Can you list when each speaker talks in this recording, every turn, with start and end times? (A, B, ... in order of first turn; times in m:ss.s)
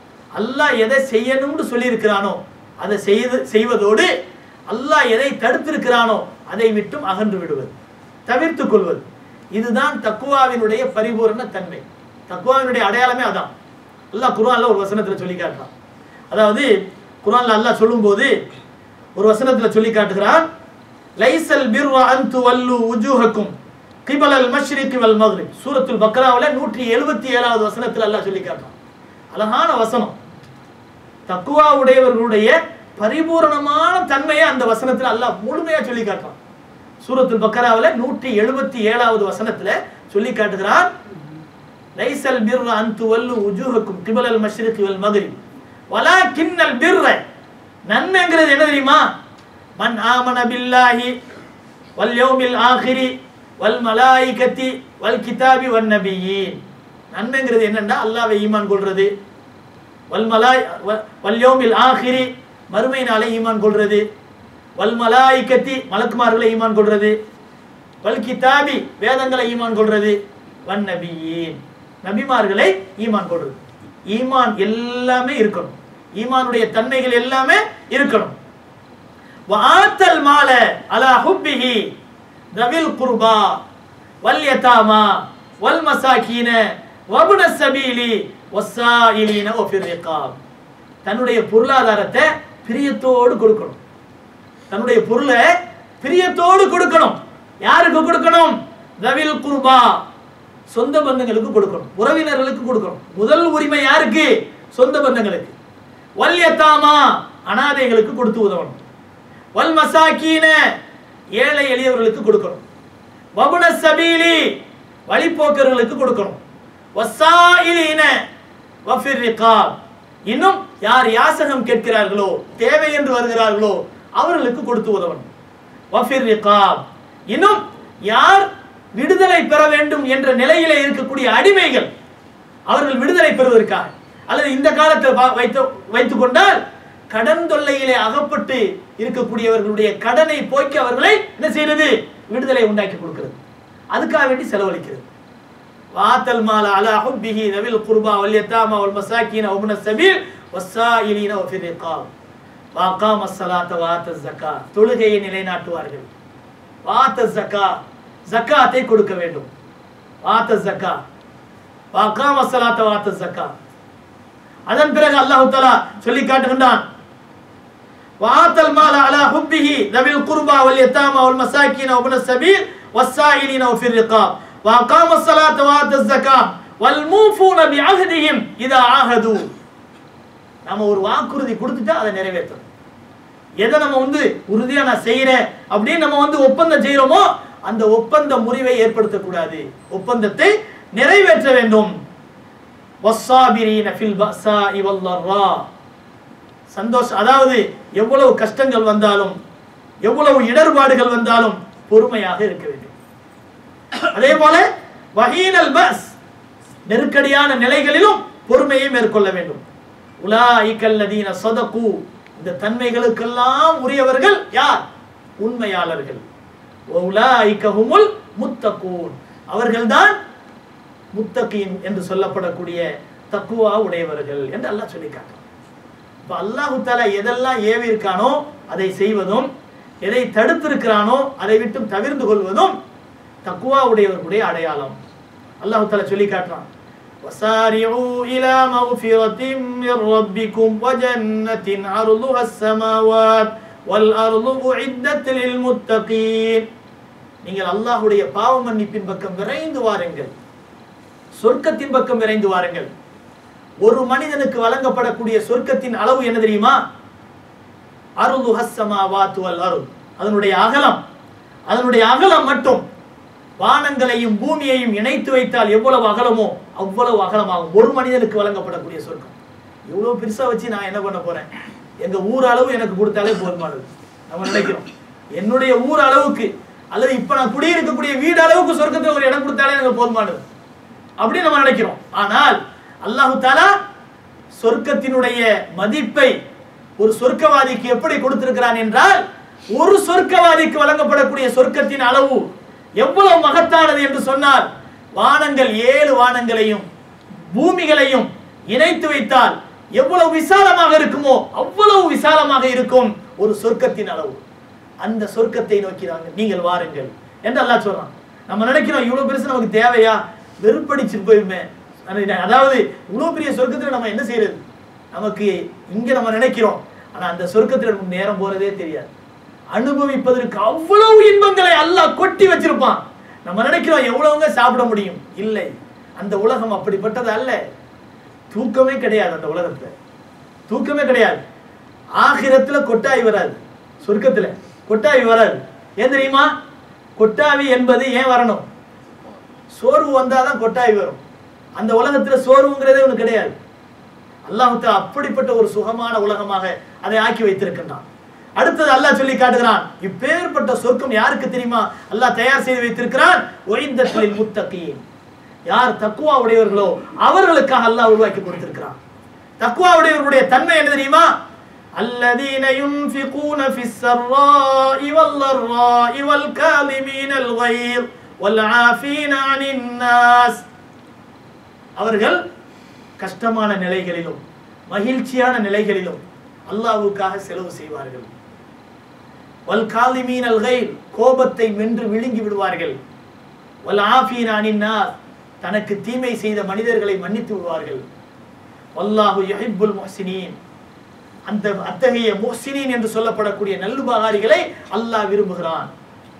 0:00.3-0:04.1 A
0:04.7-0:07.7 A
0:08.3-0:09.0 A
0:09.6-0:13.5 A
0:14.1-0:15.7 A
0:16.3-0:16.7 A
0:17.2-0:18.3 A
0:19.2-0:20.4 A
0:21.2-0:23.5 A
0:24.0-0:28.7 A
0:29.3-0:30.1 A
0:31.3-0:36.4 A
0:37.0-0:40.9 A
0:42.0-0:45.4 A
0:45.9-0:47.2 A
0:47.9-0:49.0 A
0:49.8-0:51.1 A
0:52.0-0:56.6 A
0:57.1-0:59.1 A
1:00.1-1:04.0 A
1:04.8-1:07.1 A
1:08.0-1:13.6 A
1:14.1-1:18.3 A
1:19.5-1:21.9 A
1:22.5-1:23.6 A
1:24.2-1:26.6 A
1:27.1-1:30.3 A
1:31.0-1:33.8 A
1:34.7-1:40.0 A
1:40.7-1:45.5 A
1:46.2-1:48.8 A
1:49.6-1:50.6 A
1:51.4-1:52.6 A
1:53.4-1:54.5 A
1:55.1-1:56.4 A
1:57.0-1:58.1 A
1:58.8-1:59.7 A
2:00.3-2:05.3 A
2:05.9-2:11.9 A
2:12.7-2:16.6 A
2:17.1-2:23.4 A
2:23.9-2:25.0 A
2:25.9-2:32.1 A
2:32.8-2:36.1 A
2:36.8-2:37.7 A
2:38.3-2:39.5 A
2:40.2-2:41.0 A
2:41.9-2:43.5 A
2:44.7-2:46.8 A
2:48.2-2:59.5 A
3:00.6-3:02.6 A
3:03.6-3:11.9 A
3:13.0-3:15.6 A
3:16.7-3:19.3 A
3:20.0-3:22.9 A
3:24.1-3:24.6 A
3:25.2-3:26.1 A
3:26.9-3:29.6 A
3:30.2-3:34.8 A
3:35.4-3:36.2 A
3:36.9-3:40.2 A
3:41.1-3:45.4 A
3:46.3-3:49.5 A
3:50.0-3:52.7 A
3:53.4-3:55.0 A
3:55.6-3:56.6 A
3:57.2-4:06.6 A
4:07.4-4:10.3 A
4:11.4-4:12.9 A
4:13.8-4:16.8 A
4:18.2-4:21.0 A
4:21.7-4:22.8 A
4:23.6-4:29.3 A
4:29.9-4:31.5 A
4:32.0-4:34.8 A
4:35.4-4:40.4 A
4:41.2-4:43.7 A
4:44.6-4:46.3 A
4:47.0-4:49.2 A
4:49.7-4:52.4 A
4:53.0-4:54.6 A
4:55.2-4:56.8 A
4:57.5-5:04.4 A
5:05.0-5:14.6 A
5:15.1-5:19.1 A
5:19.7-5:27.6 A
5:28.5-5:29.9 A
5:30.7-5:31.4 A
5:32.2-5:36.5 A
5:37.2-5:38.6 A
5:39.7-5:41.2 A
5:41.8-5:43.5 A
5:44.5-5:48.0 A
5:48.6-5:55.0 A
5:55.7-5:59.0 A
5:59.6-6:01.3 A
6:02.0-6:10.6 A
6:12.0-6:12.4 A
6:13.2-6:18.3 A
6:19.7-6:23.0 A
6:23.8-6:25.1 A
6:25.6-6:28.0 A
6:29.0-6:30.6 A
6:31.5-6:35.9 A